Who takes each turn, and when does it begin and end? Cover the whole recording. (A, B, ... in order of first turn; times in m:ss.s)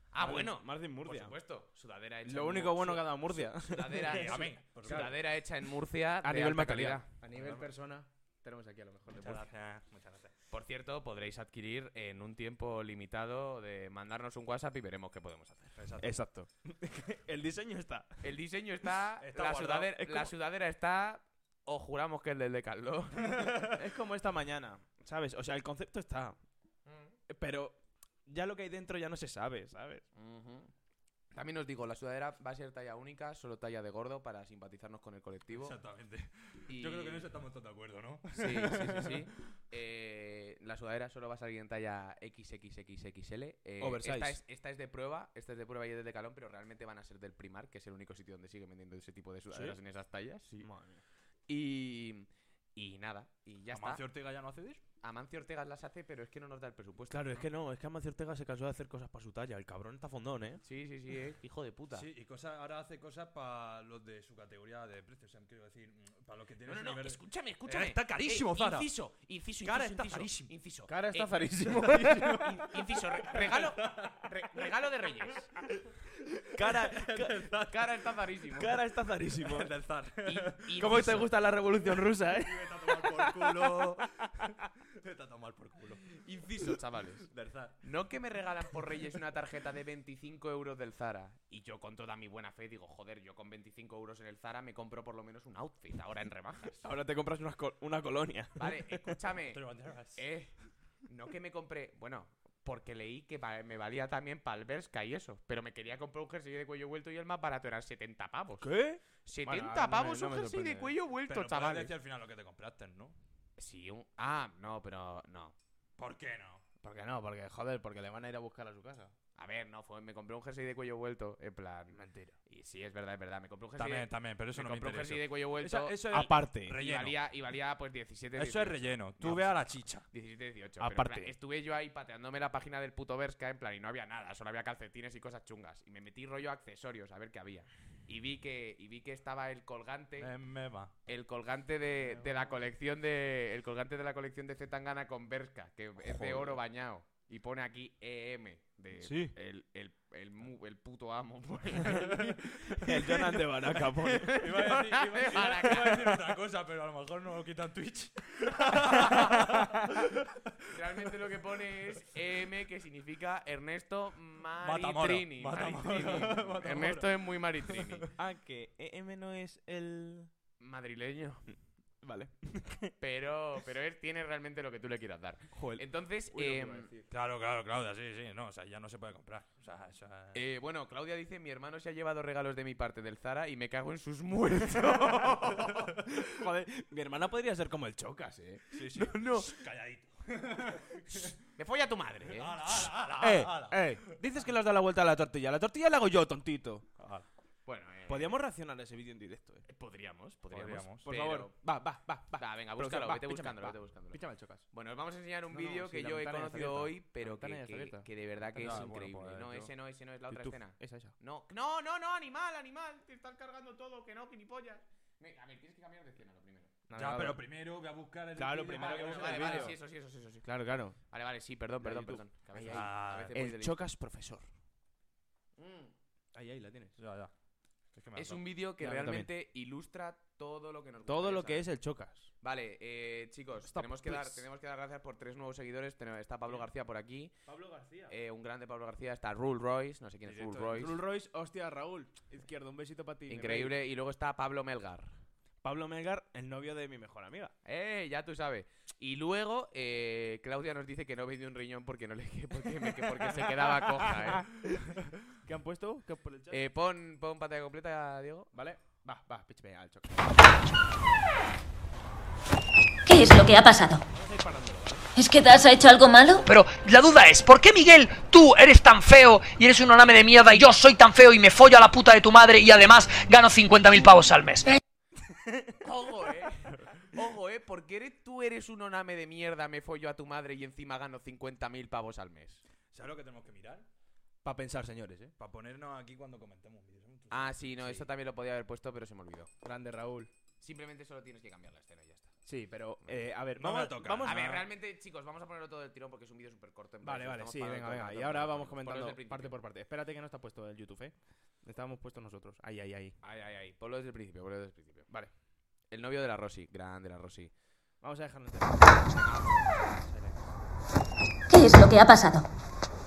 0:00.1-0:07.1 A
0:00.2-0:01.4 B
0:02.2-0:05.1 B
0:04.0-0:05.1 C
0:06.2-0:09.5 B
0:07.3-0:07.7 C
0:09.1-0:10.3 C
0:10.5-0:15.8 A
0:15.8-0:16.2 C
0:16.0-0:18.2 B
0:18.2-0:23.6 A
0:19.2-0:20.1 C
0:23.7-0:26.4 B
0:26.8-0:27.2 A
0:27.3-0:30.0 B
0:30.2-0:30.7 A
0:31.3-0:35.8 A
0:35.6-0:39.2 C
0:36.7-0:37.3 A
0:38.4-0:50.7 A
0:38.4-0:39.1 B
0:43.8-0:44.4 B
0:49.5-0:49.8 B
0:50.6-0:51.0 B
0:51.5-0:54.0 A
0:53.7-0:54.8 C
0:55.0-0:57.4 A
0:57.1-1:00.6 B
1:00.6-1:02.1 A
1:01.9-1:08.9 C
1:06.6-1:11.5 A
1:09.6-1:10.5 C
1:10.9-1:12.6 B
1:11.7-1:14.3 C
1:12.2-1:15.5 A
1:16.5-1:17.5 B
1:16.6-1:18.0 C
1:17.6-1:18.8 A
1:18.6-1:19.7 B
1:19.4-1:21.0 C
1:20.2-1:21.3 A
1:20.8-1:23.9 B
1:22.3-1:26.1 C
1:26.2-1:27.3 A
1:27.3-1:27.8 C
1:27.8-1:36.9 A
1:36.8-1:39.1 B
1:38.6-1:39.6 A
1:39.5-1:40.3 C
1:40.2-1:40.5 A
1:41.0-1:48.7 A
1:48.6-1:51.0 B
1:49.2-1:51.9 A
1:51.3-1:53.2 C
1:53.6-1:55.6 A
1:56.0-1:56.6 C
1:56.8-1:59.1 B
1:59.4-2:20.3 A
2:01.9-2:02.4 B
2:03.8-2:07.2 C
2:06.1-2:06.8 B
2:08.4-2:10.1 C
2:10.8-2:11.3 B
2:20.2-2:21.0 C
2:21.1-2:36.3 A
2:26.0-2:26.6 B
2:29.0-2:29.4 B
2:32.7-2:34.4 B
2:34.4-2:40.2 C
2:38.9-2:39.3 A
2:40.7-2:48.1 A
2:44.6-2:48.0 C
2:48.2-2:50.3 B
2:50.6-2:51.5 A
2:52.0-2:52.9 B
2:53.0-2:56.9 A
2:55.5-2:57.1 B
2:57.1-3:00.4 C
3:00.3-3:06.0 A
3:06.1-3:09.0 B
3:08.7-3:11.4 C
3:09.0-3:09.5 A
3:11.5-3:12.9 A
3:12.3-3:14.4 C
3:13.2-3:16.8 B
3:17.0-3:17.3 C
3:17.7-3:18.4 A
3:18.1-3:19.7 B
3:19.7-3:21.5 A
3:20.5-3:21.1 C
3:21.0-3:24.7 B
3:22.4-3:36.7 A
3:25.5-3:29.0 B
3:28.6-3:29.7 C
3:30.3-3:31.1 B
3:36.9-3:37.4 B
3:37.0-3:39.7 C
3:38.4-3:39.8 B
3:38.7-3:40.5 A
3:40.4-3:41.0 B
3:41.0-3:43.8 A
3:41.8-3:44.5 B
3:42.7-3:43.3 C
3:45.6-3:45.9 A
3:46.3-3:47.0 B
3:47.0-3:47.3 C
3:47.9-3:48.4 C
3:48.2-3:51.7 A
3:48.8-3:49.3 B
3:51.1-3:52.3 B
3:52.4-3:57.3 A
3:53.6-3:54.5 B
3:57.5-3:58.2 B
3:58.1-4:01.0 A
4:00.2-4:03.8 B
4:03.3-4:05.1 A
4:05.6-4:07.5 B
4:07.6-4:14.6 A
4:12.8-4:16.6 B
4:16.5-4:18.5 A
4:18.5-4:20.3 B
4:23.1-4:24.0 D
4:24.1-4:25.1 B
4:25.2-4:26.4 D
4:26.5-4:34.8 E
4:35.3-4:35.8 B
4:35.8-4:42.6 A
4:42.9-4:43.9 C
4:44.4-4:45.3 B
4:45.4-4:48.0 C
4:47.3-4:49.5 A
4:49.6-4:50.3 B
4:50.6-4:52.4 A
4:52.4-4:54.6 B
4:53.6-4:54.6 C
4:54.2-4:59.6 A
4:57.0-5:03.2 B
5:03.2-5:05.1 A
5:05.9-5:07.5 A
5:08.0-5:10.4 B
5:09.2-5:09.6 A
5:11.5-5:12.5 D